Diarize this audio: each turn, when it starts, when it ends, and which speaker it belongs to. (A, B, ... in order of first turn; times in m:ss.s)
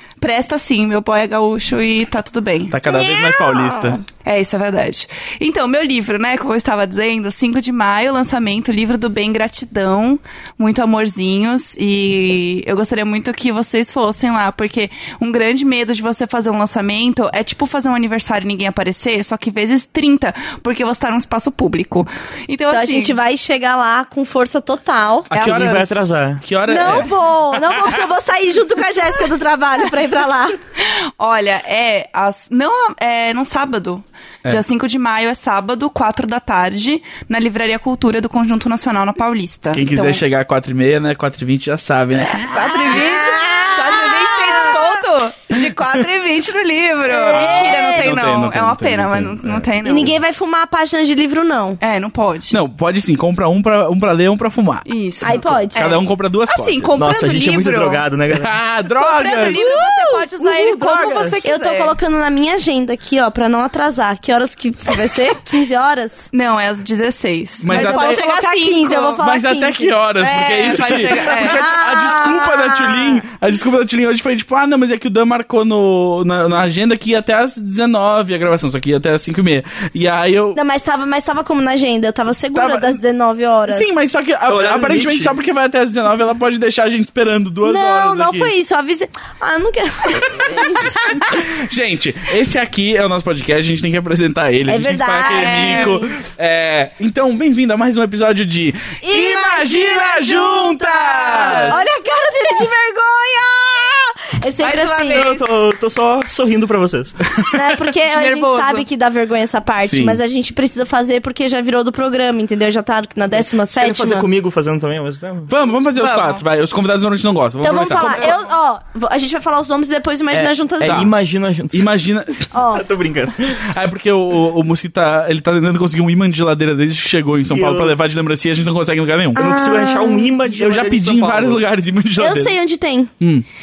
0:00.2-0:02.8 A
0:02.7-0:04.0 B
0:02.9-0:04.0 C
0:04.2-0:23.2 A
0:22.7-0:25.3 C
0:25.3-0:28.1 B
0:25.3-0:27.0 D
0:25.3-0:25.8 A
0:26.6-0:30.6 C
0:30.8-0:40.2 A
0:39.7-0:42.5 B
0:42.2-0:50.2 A
0:42.8-0:44.9 C
0:47.1-0:48.1 C
0:47.2-0:50.0 B
0:49.8-0:51.8 C
0:51.8-0:52.6 A
0:52.5-0:57.1 B
0:54.8-0:58.0 A
0:55.2-0:56.0 C
0:56.9-0:58.6 D
0:58.3-0:59.6 B
0:58.9-1:02.0 A
0:59.4-1:00.2 C
1:00.4-1:01.4 D
1:01.4-1:06.3 C
1:06.3-1:09.2 A
1:07.6-1:08.2 B
1:07.7-1:10.0 C
1:09.2-1:20.6 B
1:10.2-1:11.8 A
1:11.4-1:13.2 C
1:20.5-1:23.9 C
1:22.5-1:23.0 B
1:23.7-1:28.5 B
1:24.5-1:25.4 D
1:27.6-1:31.1 C
1:30.3-1:41.8 B
1:34.7-1:36.1 C
1:35.3-1:36.0 A
1:39.0-1:40.7 C
1:39.3-1:41.8 A
1:41.3-1:45.3 C
1:44.6-1:45.5 A
1:45.1-1:47.4 D
1:47.5-1:54.2 C
1:48.0-1:48.8 A
1:49.8-1:50.2 B
1:53.4-1:55.5 D
1:55.5-1:58.4 B
1:55.9-1:56.4 A
1:57.6-2:01.1 C
1:57.9-1:58.5 A
2:00.3-2:01.9 D
2:00.8-2:01.1 B
2:01.7-2:02.5 B
2:02.5-2:02.8 C
2:02.5-2:03.7 D
2:03.6-2:09.4 B
2:07.5-2:08.0 D
2:09.3-2:10.3 C
2:09.3-2:11.6 D
2:10.4-2:12.6 B
2:12.2-2:13.1 C
2:13.2-2:13.4 B